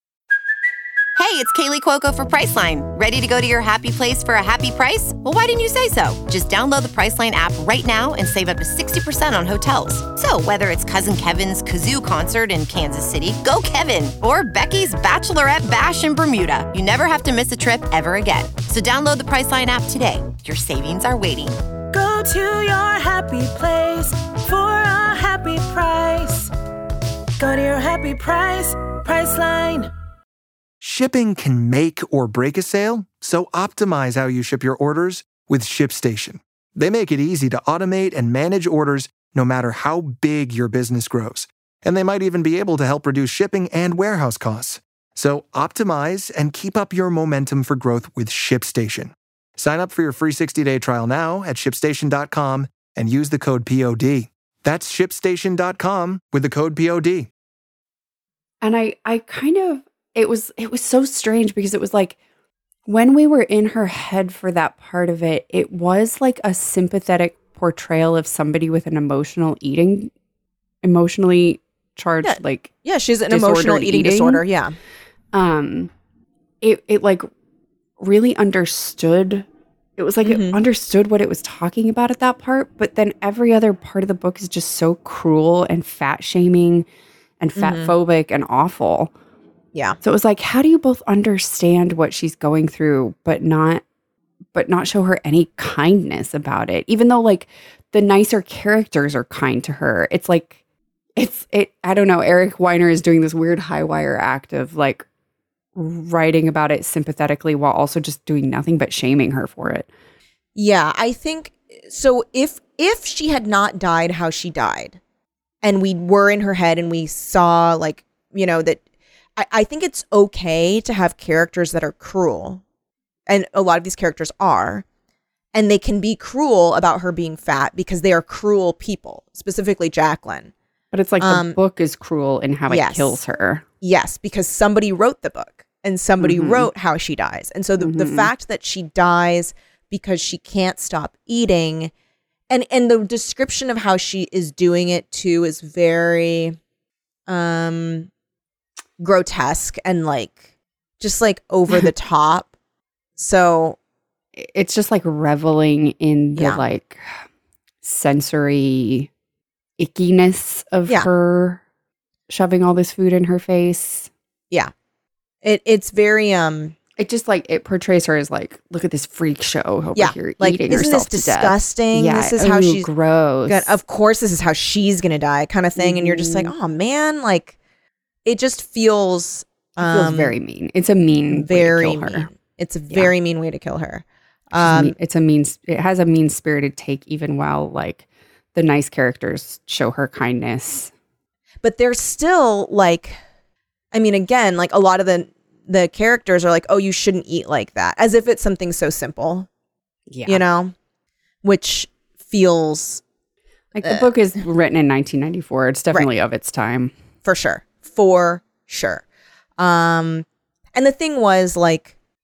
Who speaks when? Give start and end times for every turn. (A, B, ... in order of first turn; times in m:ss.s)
0:01.2-0:21.6 A
0:21.9-0:26.5 B
0:27.4-0:29.9 B
0:30.8-0:57.3 C
0:58.6-1:02.2 D
1:02.9-1:10.1 D
1:10.8-1:12.7 D
1:12.2-1:14.8 E
1:13.3-1:14.4 D
1:15.3-1:15.9 D
1:16.6-1:17.3 D
1:18.0-1:19.4 D
1:20.0-1:26.8 D
1:20.2-1:20.6 E
1:27.4-1:29.1 D
1:27.6-1:27.9 E
1:30.0-1:33.8 D
1:34.5-1:40.6 D
1:41.2-1:45.0 D
1:45.7-1:49.9 D
1:50.5-1:55.0 E
1:55.6-1:58.8 E
1:59.4-2:02.6 E
2:03.3-2:04.8 E
2:05.5-2:10.5 E
2:10.9-2:13.6 D
2:11.2-2:11.6 E
2:12.7-2:13.2 E
2:13.8-2:21.9 E
2:16.2-2:16.7 D
2:17.8-2:18.3 D
2:22.5-2:26.6 E
2:27.3-2:28.1 E
2:29.0-2:30.4 E
2:31.0-2:32.5 E
2:33.2-2:33.8 E
2:34.4-2:37.2 D
2:36.4-2:36.6 E
2:37.8-2:39.1 D
2:39.8-2:41.6 D
2:42.3-2:44.1 D
2:45.4-2:46.8 E
2:47.0-2:53.7 D
2:49.9-2:52.9 E
2:53.5-2:57.6 E
2:55.8-2:56.5 D
2:58.2-3:00.3 E
2:59.8-3:02.3 D
3:01.3-3:04.9 E
3:04.6-3:10.9 D
3:11.6-3:13.2 E
3:13.9-3:19.5 E
3:20.1-3:20.4 D
3:20.2-3:20.7 E
3:21.4-3:23.0 E
3:23.7-3:26.9 D
3:23.8-3:24.1 E
3:27.2-3:29.0 E
3:29.6-3:31.9 E